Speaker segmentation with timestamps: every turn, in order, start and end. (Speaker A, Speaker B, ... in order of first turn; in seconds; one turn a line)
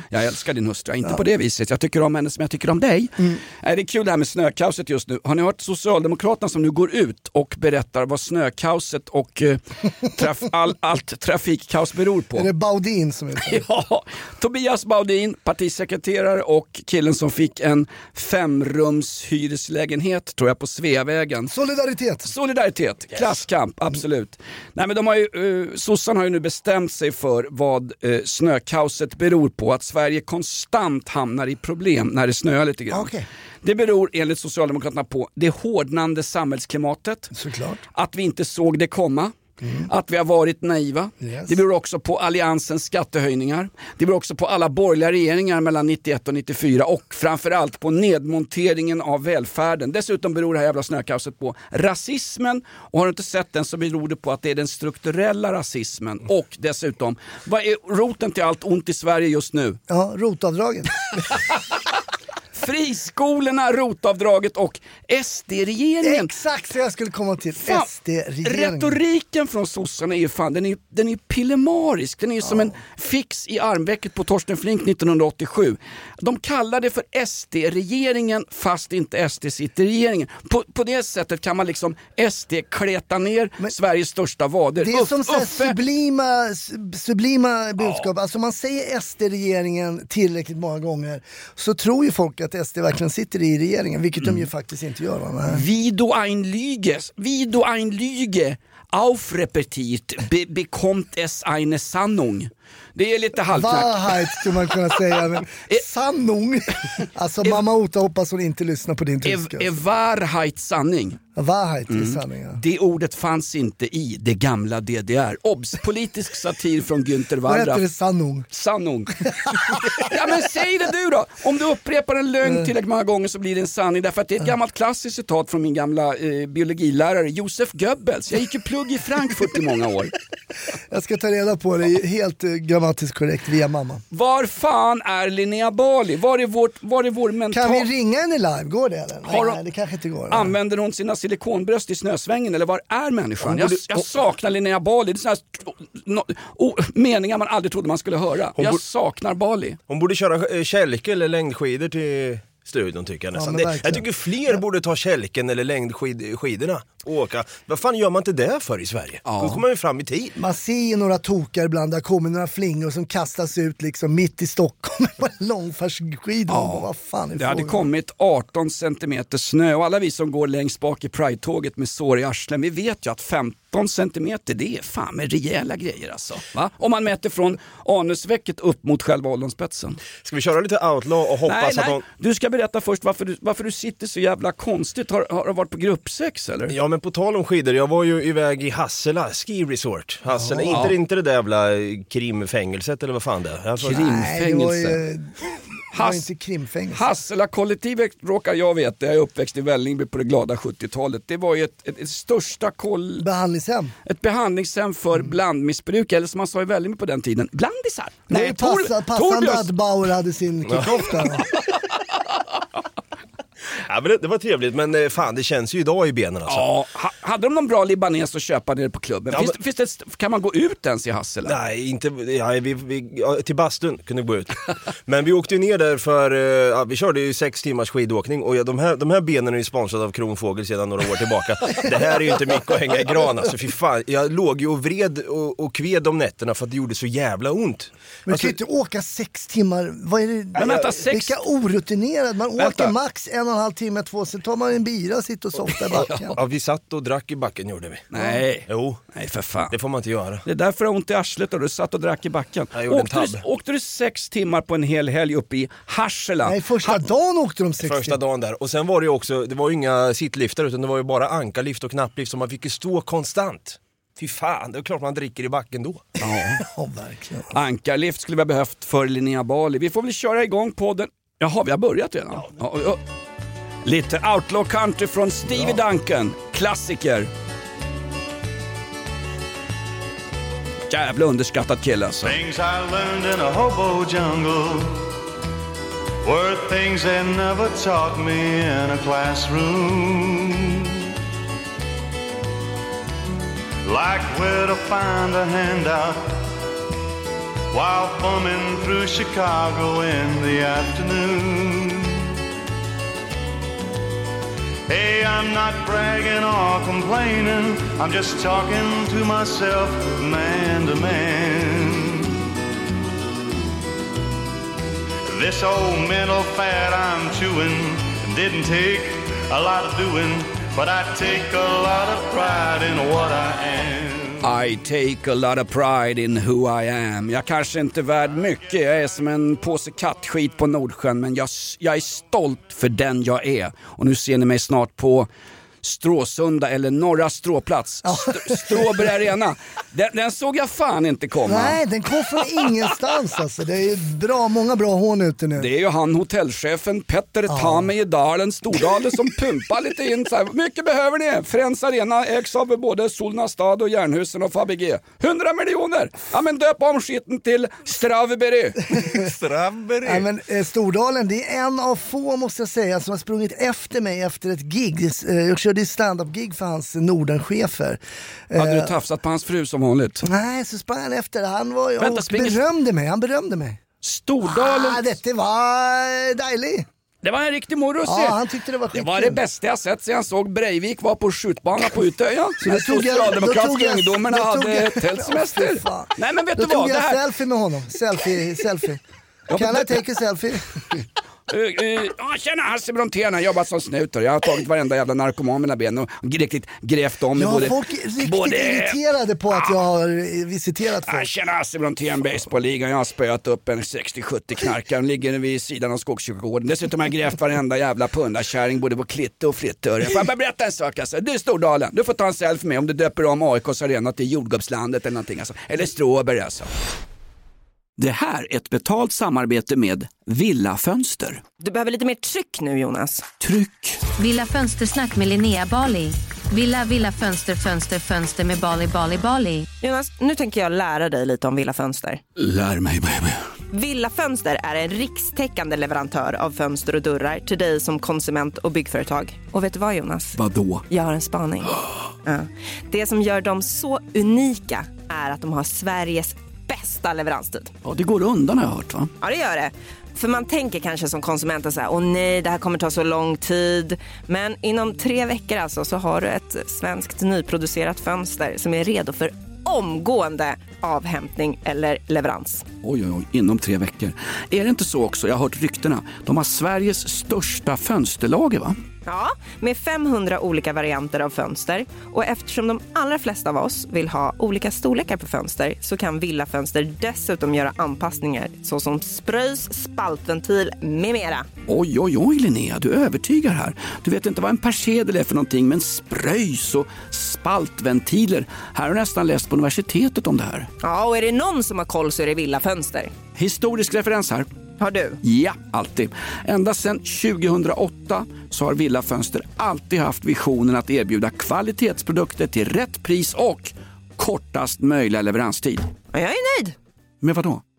Speaker A: 0.1-12.5
Speaker B: 12.3-13.6
Speaker A: 13.4-21.5
Speaker B: 21.5-22.3
Speaker A: 22.2-33.1
Speaker B: 32.9-33.2
Speaker A: 33.6-37.3
Speaker B: 37.3-37.8
Speaker A: 37.9-59.8
Speaker B: 39.6-39.9
Speaker B: 41.2-41.5
Speaker B: 59.9-60.9
Speaker A: 62.5-66.3
Speaker B: 66.0-69.0
Speaker A: 68.4-85.8
Speaker B: 84.8-95.7
Speaker A: 87.8-88.1
Speaker A: 94.2-94.5
Speaker A: 95.5-104.4
Speaker B: 103.5-109.8
Speaker A: 109.2-111.2
Speaker B: 111.3-112.6
Speaker A: 111.9-117.8
Speaker B: 117.4-118.5
Speaker A: 118.5-130.1
Speaker B: 119.3-120.1
Speaker B: 130.9-134.0
Speaker A: 134.1-137.9
Speaker B: 137.5-140.5
Speaker A: 139.2-139.6
Speaker A: 140.3-149.8
Speaker C: 143.4-144.0
Speaker C: 149.9-160.3
Speaker B: 153.3-154.6
Speaker A: 159.2-159.6
Speaker B: 160.3-167.9
Speaker A: 166.5-180.0
Speaker C: 180.2-182.0
Speaker A: 181.5-186.7
Speaker C: 186.7-194.0
Speaker A: 190.7-190.9
Speaker A: 193.8-195.0
Speaker B: 193.9-197.1
Speaker A: 195.9-196.3
Speaker A: 196.9-203.2
Speaker B: 203.2-203.9
Speaker A: 204.1-209.7
Speaker B: 208.3-211.5
Speaker C: 213.7-216.7
Speaker A: 216.4-221.6
Speaker C: 221.4-238.5
Speaker B: 238.2-246.4
Speaker A: 240.6-241.4
Speaker C: 240.6-240.9
Speaker A: 242.6-242.9
Speaker C: 246.3-248.1
Speaker A: 248.1-249.7
Speaker C: 248.7-249.0
Speaker C: 249.7-250.4
Speaker A: 250.4-257.0
Speaker C: 252.7-253.4
Speaker B: 256.4-258.2
Speaker C: 257.8-266.1
Speaker A: 266.2-266.6
Speaker B: 266.5-267.5
Speaker A: 267.5-273.0
Speaker A: 273.8-277.3
Speaker A: 280.9-282.4
Speaker D: 282.2-285.1
Speaker D: 286.2-290.9
Speaker D: 293.8-296.4
Speaker D: 297.7-302.2
Speaker D: 304.9-312.4
Speaker D: 315.3-324.4
Speaker A: 324.4-335.3
Speaker A: 335.8-341.8
Speaker B: 338.0-339.0
Speaker B: 341.4-345.7
Speaker A: 345.6-358.9
Speaker B: 347.5-347.9
Speaker D: 359.1-360.2
Speaker B: 360.0-368.9
Speaker A: 368.6-370.2
Speaker B: 370.2-373.8
Speaker A: 372.0-372.6
Speaker A: 374.0-375.0
Speaker B: 374.4-376.9
Speaker A: 377.2-378.4
Speaker B: 378.0-379.4
Speaker A: 378.9-387.2
Speaker B: 382.6-390.7
Speaker A: 389.5-390.0
Speaker A: 391.5-399.0
Speaker B: 397.3-401.3
Speaker A: 401.1-416.7
Speaker A: 418.0-421.4
Speaker E: 421.6-423.2
Speaker A: 423.4-424.0
Speaker F: 424.2-429.7
Speaker E: 429.8-432.2
Speaker A: 432.4-433.4
Speaker E: 433.7-447.7
Speaker A: 440.4-440.8
Speaker A: 447.8-449.1
Speaker E: 449.2-462.6
Speaker A: 462.8-468.8
Speaker E: 469.1-481.4
Speaker A: 481.7-490.7
Speaker E: 490.8-493.1
Speaker A: 493.4-494.5
Speaker E: 494.8-495.2
Speaker A: 495.2-505.9
Speaker E: 506.1-506.8
Speaker A: 507.2-507.6